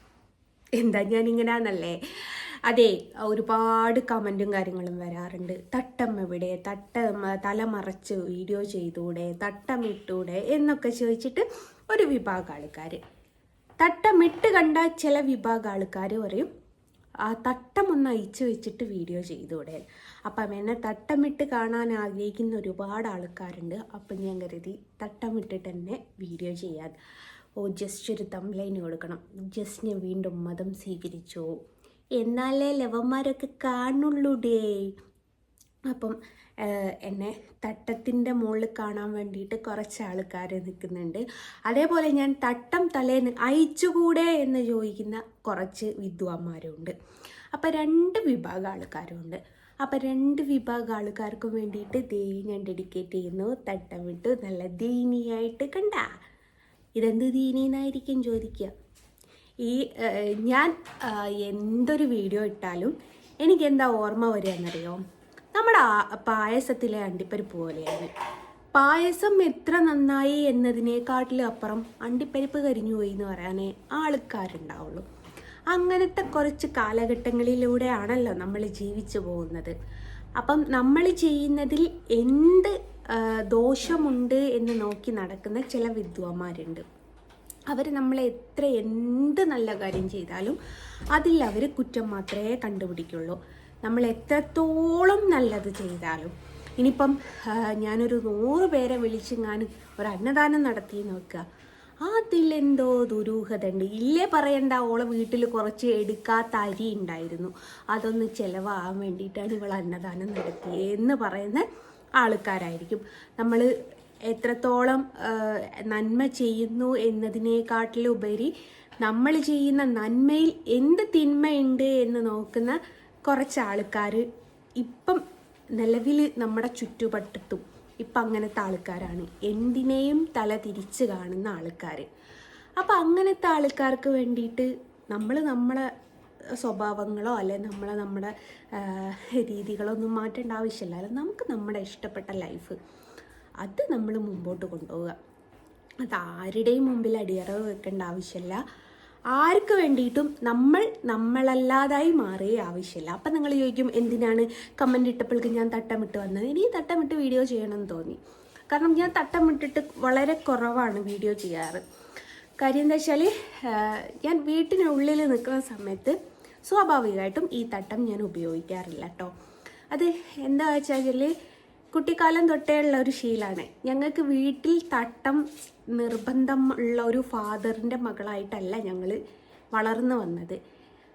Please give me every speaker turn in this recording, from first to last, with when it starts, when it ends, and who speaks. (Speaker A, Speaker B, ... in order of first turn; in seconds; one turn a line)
Speaker A: 0.8-13.0
Speaker A: 13.8-16.5
Speaker A: 17.2-27.0
Speaker A: 27.6-31.5
Speaker A: 32.2-34.9
Speaker A: 35.9-46.9
Speaker A: 47.5-56.1
Speaker A: 57.0-58.7
Speaker A: 59.6-65.0
Speaker A: 65.5-68.1
Speaker A: 68.7-75.0
Speaker A: 75.7-79.7
Speaker A: 80.4-86.8
Speaker A: 87.7-90.6
Speaker A: 91.1-101.4
Speaker A: 102.0-111.7
Speaker A: 112.2-113.7
Speaker A: 114.3-124.2
Speaker A: 124.8-125.2
Speaker A: 125.8-132.1
Speaker A: 132.8-135.9
Speaker A: 136.6-142.8
Speaker A: 143.6-145.2
Speaker A: 146.0-148.6
Speaker A: 149.3-161.8
Speaker A: 162.6-166.2
Speaker A: 166.7-169.3
Speaker A: 169.9-171.3
Speaker A: 171.9-179.2
Speaker A: 179.7-180.6